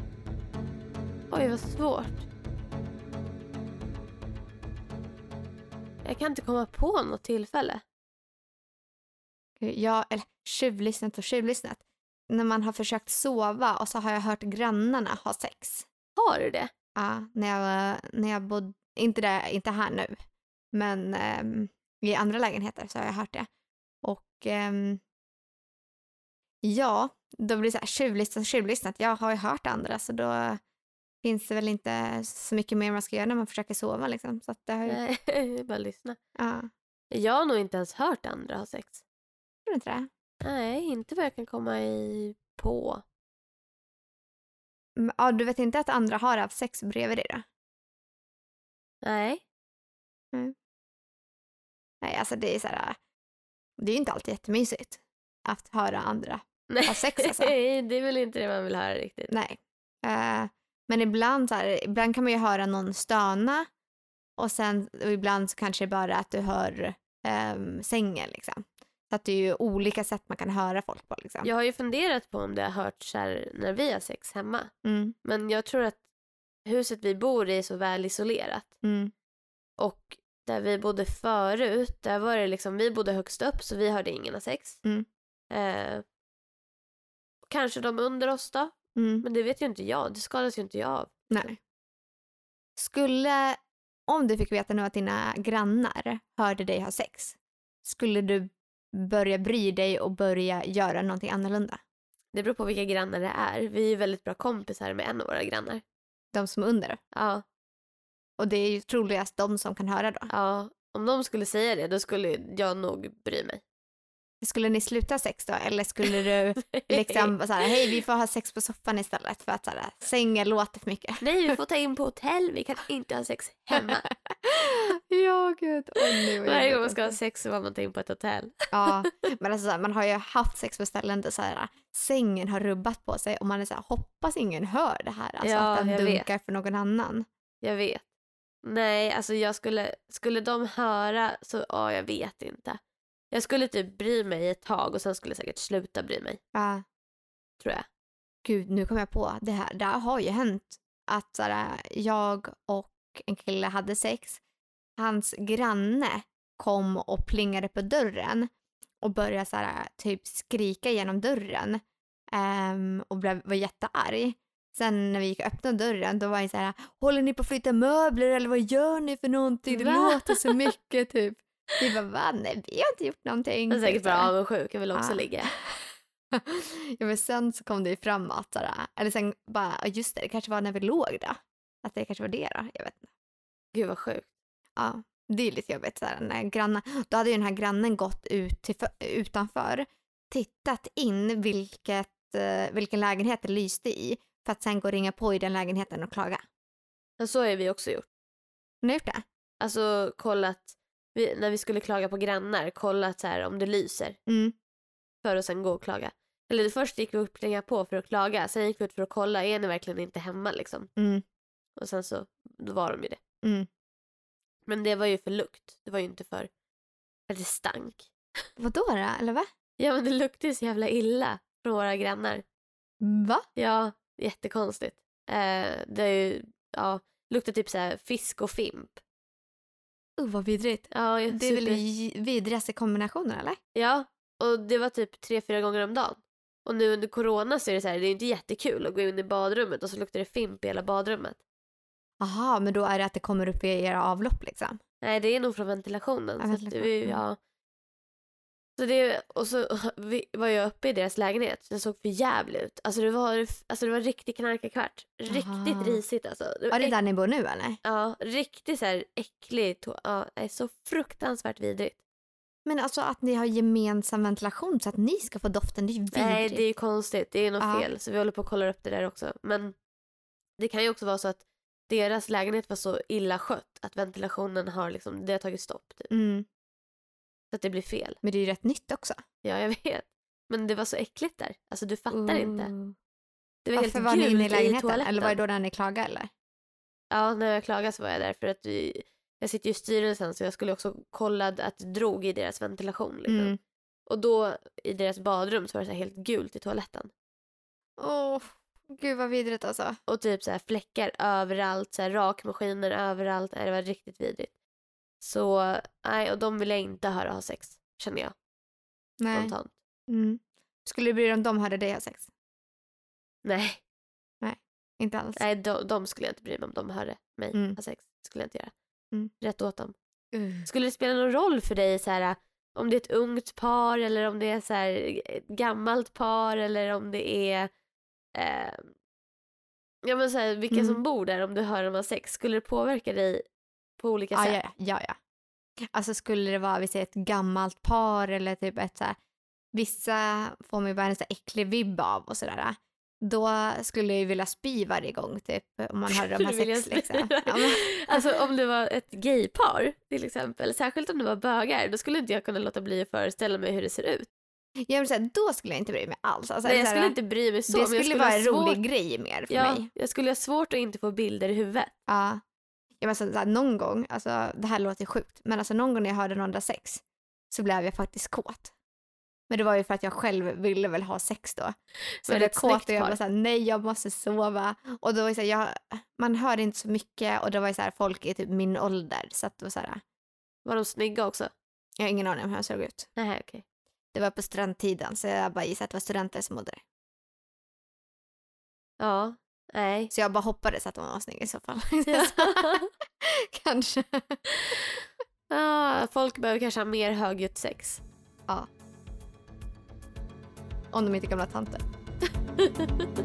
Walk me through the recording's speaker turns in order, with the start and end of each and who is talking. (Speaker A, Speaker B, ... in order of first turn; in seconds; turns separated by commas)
Speaker A: 1.3-2.3, Speaker A: 6.0-7.8, Speaker B: 9.6-15.9, Speaker A: 16.2-16.7, Speaker B: 17.0-20.1, Speaker B: 20.7-23.5, Speaker B: 24.0-25.0, Speaker B: 26.6-30.6, Speaker B: 31.2-35.0, Speaker A: 34.9-36.2, Speaker B: 36.4-36.7, Speaker A: 37.1-39.0, Speaker B: 39.7-40.1, Speaker A: 40.4-43.0, Speaker B: 45.0-47.4, Speaker A: 49.0-49.4, Speaker B: 52.0-53.0, Speaker B: 53.8-57.5, Speaker A: 56.7-59.3, Speaker B: 59.3-63.7, Speaker B: 64.4-71.5, Speaker A: 71.4-74.7, Speaker B: 74.8-75.2, Speaker A: 75.2-76.0, Speaker A: 76.7-78.7, Speaker B: 78.8-79.1, Speaker A: 79.8-84.8, Speaker A: 85.5-86.0, Speaker A: 87.5-91.5, Speaker B: 89.0-89.3, Speaker B: 91.3-91.6, Speaker B: 92.8-101.8, Speaker A: 102.3-105.8, Speaker B: 106.3-107.0, Speaker A: 107.1-107.4, Speaker B: 108.4-110.3, Speaker A: 110.3-113.6, Speaker B: 114.4-121.3, Speaker A: 116.7-117.3, Speaker A: 121.2-124.0, Speaker B: 123.8-127.2, Speaker A: 126.2-129.1, Speaker B: 128.7-137.2, Speaker A: 135.4-136.3, Speaker A: 137.6-138.1, Speaker A: 138.6-142.8, Speaker A: 143.3-146.4, Speaker B: 146.5-146.8, Speaker A: 147.6-147.9, Speaker B: 148.4-154.4, Speaker B: 155.0-158.5, Speaker B: 159.0-161.8, Speaker B: 162.3-174.3, Speaker A: 169.7-170.6, Speaker A: 173.7-175.5, Speaker B: 174.9-175.8, Speaker B: 176.4-183.1, Speaker A: 183.7-184.3, Speaker B: 184.8-196.4, Speaker A: 197.2-198.1, Speaker B: 198.8-199.2, Speaker A: 199.6-204.2, Speaker B: 204.3-204.5, Speaker A: 205.2-210.9, Speaker B: 211.0-211.2, Speaker A: 211.8-213.2, Speaker B: 213.4-213.7, Speaker A: 214.7-216.5, Speaker A: 217.3-218.1, Speaker B: 218.6-219.5, Speaker A: 219.8-222.4, Speaker B: 223.0-223.5, Speaker A: 223.6-229.0, Speaker B: 230.2-233.6, Speaker A: 230.9-231.8, Speaker A: 233.8-241.4, Speaker B: 242.2-244.8, Speaker A: 245.0-247.4, Speaker B: 246.4-247.2, Speaker A: 248.8-256.9, Speaker B: 255.3-256.0, Speaker B: 256.7-257.8, Speaker A: 257.8-262.0, Speaker B: 262.7-266.6, Speaker A: 266.1-269.8, Speaker B: 267.6-267.9, Speaker A: 270.6-276.1, Speaker B: 276.1-276.5, Speaker A: 277.5-278.2, Speaker B: 278.2-279.2, Speaker A: 279.4-282.7, Speaker B: 282.1-282.9, Speaker A: 283.6-285.4, Speaker B: 283.8-286.3, Speaker A: 287.1-293.5, Speaker B: 293.3-293.6, Speaker A: 294.1-297.1, Speaker B: 298.0-300.0, Speaker A: 300.1-304.5, Speaker A: 305.2-308.4, Speaker B: 309.2-309.5, Speaker A: 309.3-309.7, Speaker B: 310.1-312.3, Speaker A: 313.4-313.8, Speaker B: 314.4-315.4, Speaker A: 315.4-318.7, Speaker B: 317.5-317.8, Speaker A: 319.4-319.9, Speaker B: 320.3-320.7, Speaker A: 320.6-327.7, Speaker A: 328.4-328.9, Speaker A: 330.0-333.4, Speaker B: 330.7-331.0, Speaker A: 334.0-334.6, Speaker B: 334.3-335.2, Speaker B: 335.9-339.2, Speaker B: 339.7-348.3, Speaker A: 346.1-354.3, Speaker B: 354.9-357.1, Speaker A: 356.6-358.8, Speaker B: 357.7-359.9, Speaker A: 359.5-361.9, Speaker B: 362.1-362.4, Speaker B: 363.0-368.7, Speaker B: 369.5-371.8, Speaker A: 372.2-373.2, Speaker B: 372.3-380.0, Speaker A: 380.6-381.5, Speaker B: 382.0-383.1, Speaker A: 383.2-383.6, Speaker B: 384.1-386.8, Speaker A: 389.0-390.1, Speaker B: 390.1-394.4, Speaker A: 392.1-392.9, Speaker A: 394.5-395.0, Speaker A: 395.5-398.0, Speaker B: 400.9-401.8, Speaker A: 402.6-403.1